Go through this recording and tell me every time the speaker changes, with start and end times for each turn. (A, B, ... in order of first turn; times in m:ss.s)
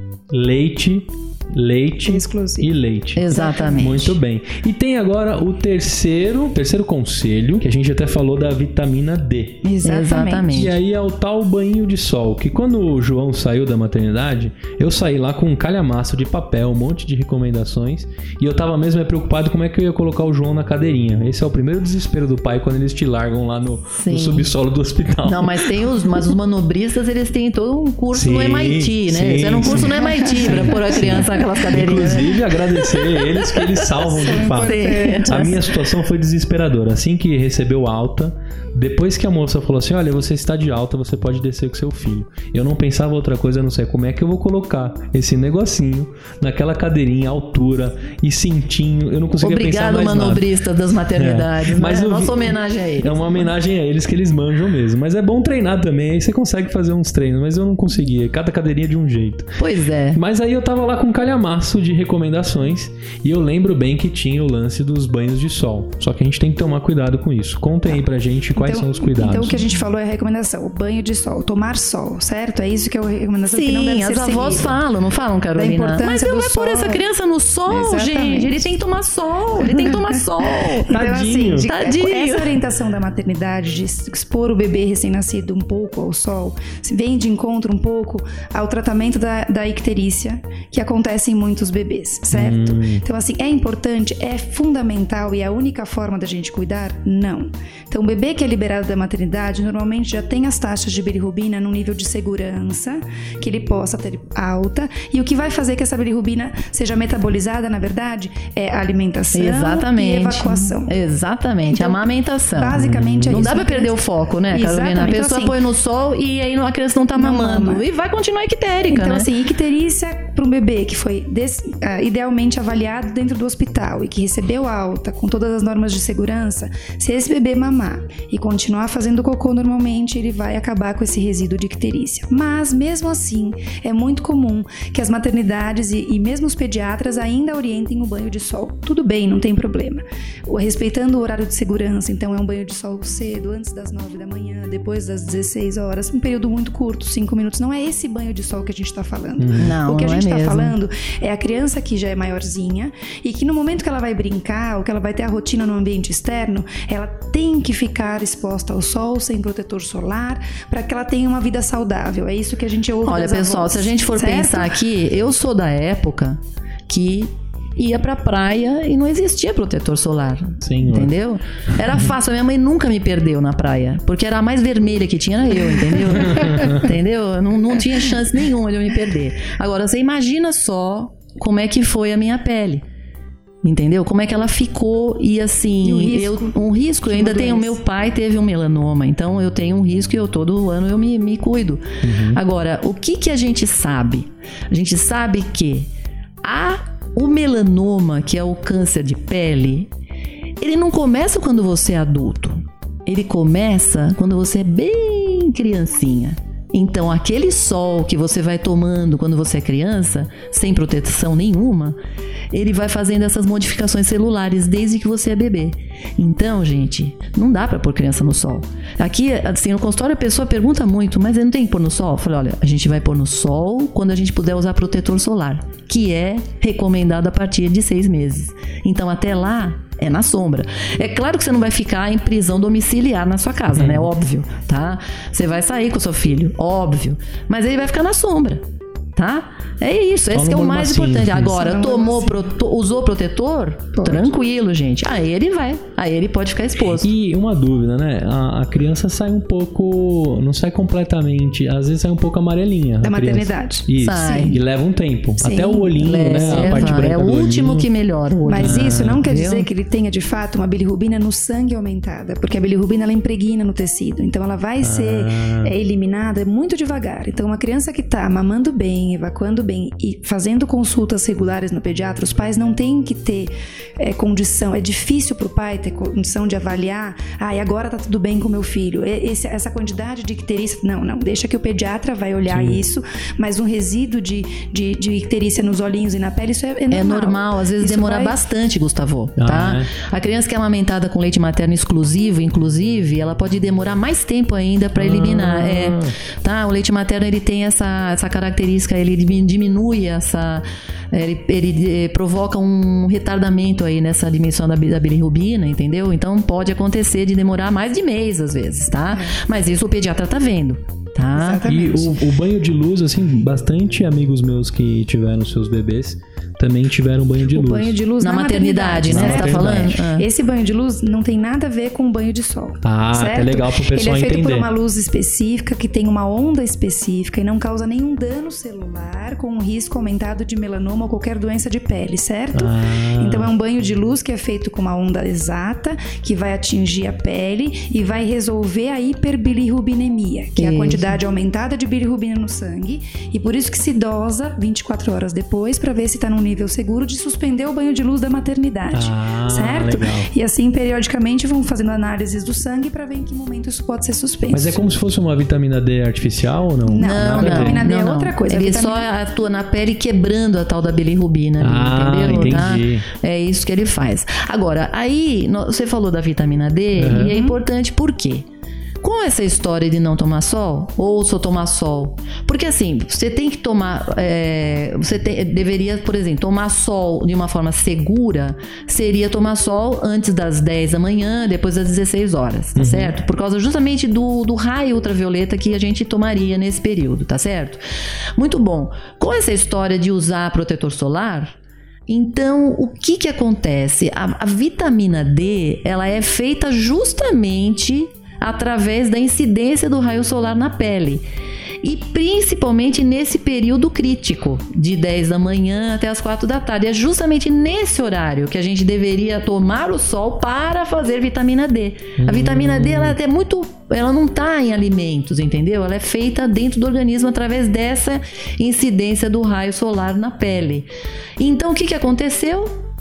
0:00.3-0:09.6 A
0:02.0-0:02.7 B
0:03.1-0:04.1 C
0:03.3-0:03.8 B
0:09.6-0:10.6 B
0:09.8-0:10.7 C
0:10.5-0:25.7 A
0:23.9-0:24.5 C
0:25.2-0:33.8 C
0:28.1-0:50.4 A
0:30.0-0:30.6 B
0:34.0-0:35.6 B
0:34.6-0:35.6 C
0:49.4-0:53.4 C
0:51.2-0:59.6 A
0:59.6-1:00.2 C
1:00.1-1:09.6 A
1:08.6-1:14.8 B
1:13.5-1:20.9 C
1:15.6-1:17.0 B
1:17.7-1:18.6 B
1:19.7-1:50.9 B
1:20.9-1:21.7 A
1:21.6-1:22.5 C
1:32.3-1:33.0 A
1:49.3-1:59.3 C
1:51.7-1:54.0 B
1:52.8-1:53.4 A
1:54.5-1:55.6 B
1:57.2-1:57.8 B
1:58.9-2:44.8 B
2:29.4-2:29.8 A
2:29.6-2:30.8 C
2:43.0-3:02.8 C
2:50.6-2:51.1 A
2:56.3-2:56.8 A
3:03.6-3:15.9 C
3:05.8-3:07.8 B
3:12.0-3:12.4 A
3:16.4-3:19.9 C
3:20.6-3:32.0 C
3:32.5-3:58.6 C
3:53.7-3:54.1 A
3:59.2-4:07.1 C
4:00.3-4:01.5 A
4:01.5-4:02.4 B
4:03.9-4:04.3 B
4:06.9-4:17.9 A
4:13.0-4:14.6 B
4:14.0-4:14.6 C
4:15.4-4:17.0 B
4:16.0-4:19.7 C
4:18.5-4:48.4 B
4:18.6-4:19.2 A
4:24.8-4:25.7 A
4:42.5-4:42.8 A
4:46.9-5:11.6 C
4:49.4-4:49.9 A
4:54.9-4:56.1 A
5:09.1-5:09.4 B
5:11.3-5:12.2 B
5:11.6-5:18.0 A
5:17.5-5:54.8 B
5:18.2-5:20.2 C
5:19.1-5:19.9 A
5:22.8-5:24.7 A
5:32.5-5:33.5 A
5:40.6-5:41.1 C
5:48.9-5:50.3 A
5:54.5-5:57.9 A
5:56.9-5:59.1 B
5:57.0-6:08.4 C
6:01.6-6:03.1 A
6:02.3-6:02.7 B
6:06.9-6:07.4 A
6:07.2-6:07.6 B
6:09.0-6:27.8 C
6:22.8-6:23.2 A
6:28.4-6:31.6 C
6:32.1-6:41.2 C
6:41.8-7:02.7 C
6:52.2-6:53.2 A